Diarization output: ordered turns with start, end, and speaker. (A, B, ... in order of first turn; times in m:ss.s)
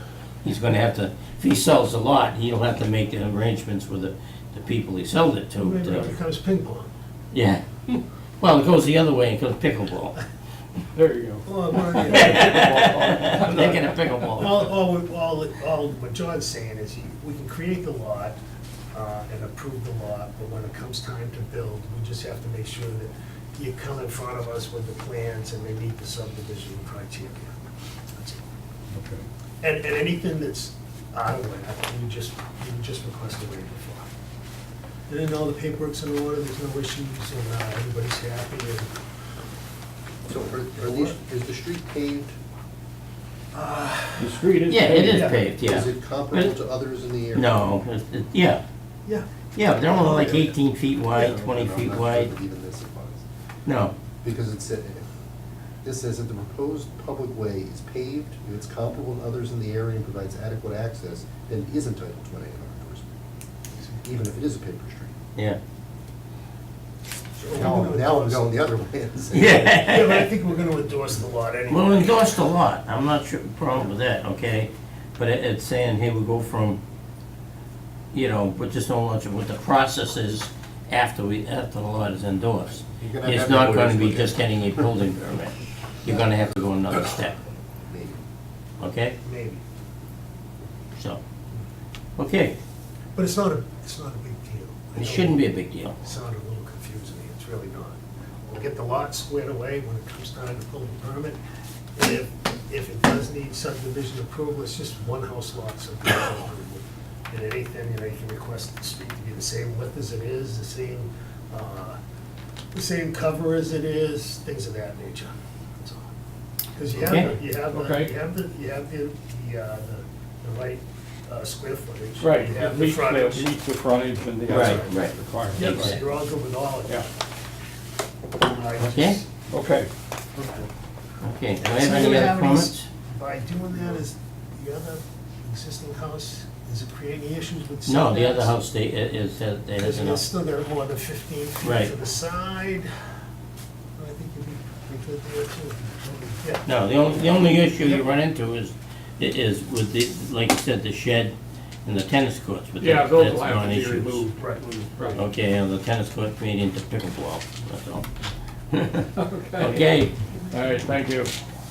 0:00.4-0:06.2 A
0:05.6-0:06.9 B
0:07.3-0:10.2 A
0:11.0-0:13.8 C
0:11.4-0:18.4 B
0:12.0-0:14.7 A
0:18.9-0:27.5 B
0:28.2-0:28.4 B
0:28.9-0:29.2 C
0:29.6-0:34.1 B
0:35.1-0:38.9 B
0:40.3-0:42.4 D
0:40.8-0:41.2 B
0:43.5-0:44.4 B
0:44.2-0:45.3 C
0:44.7-0:46.5 A
0:45.0-0:45.4 B
0:45.6-0:47.8 D
0:47.3-0:48.6 A
0:49.6-0:52.3 A
0:49.9-0:50.5 D
0:51.1-0:53.2 D
0:53.7-0:53.9 A
0:54.2-0:55.0 D
0:55.8-1:03.1 D
1:03.8-1:05.1 D
1:07.4-1:08.8 B
1:07.5-1:09.9 D
1:09.3-1:10.3 A
1:09.7-1:12.4 B
1:11.7-1:16.8 A
1:18.1-1:27.4 A
1:22.8-1:24.9 D
1:26.9-1:27.2 D
1:27.8-1:28.2 D
1:28.8-1:29.2 A
1:29.2-1:29.6 B
1:31.0-1:31.2 A
1:32.2-1:32.6 A
1:33.2-1:35.5 B
1:35.0-1:36.0 A
1:36.0-1:41.4 B
1:42.0-1:52.0 B
1:52.7-1:56.1 B
1:56.8-2:03.5 B
1:57.0-1:57.4 A
1:57.7-1:58.1 C
2:02.2-2:06.0 C
2:04.5-2:05.0 B
2:04.5-2:06.0 A
2:05.5-2:07.0 B
2:08.4-2:09.3 B
2:08.8-2:09.2 A
2:09.5-2:09.9 C
2:11.2-2:12.9 A
2:11.6-2:18.6 B
2:17.9-2:20.2 A
2:19.8-2:22.9 B
2:21.6-2:21.9 A
2:24.0-2:26.7 B
2:26.6-2:34.3 A
2:32.8-2:35.2 C
2:34.4-2:34.6 B
2:35.2-2:38.1 A
2:38.7-2:40.1 A
2:39.2-2:39.9 C
2:40.5-2:41.3 C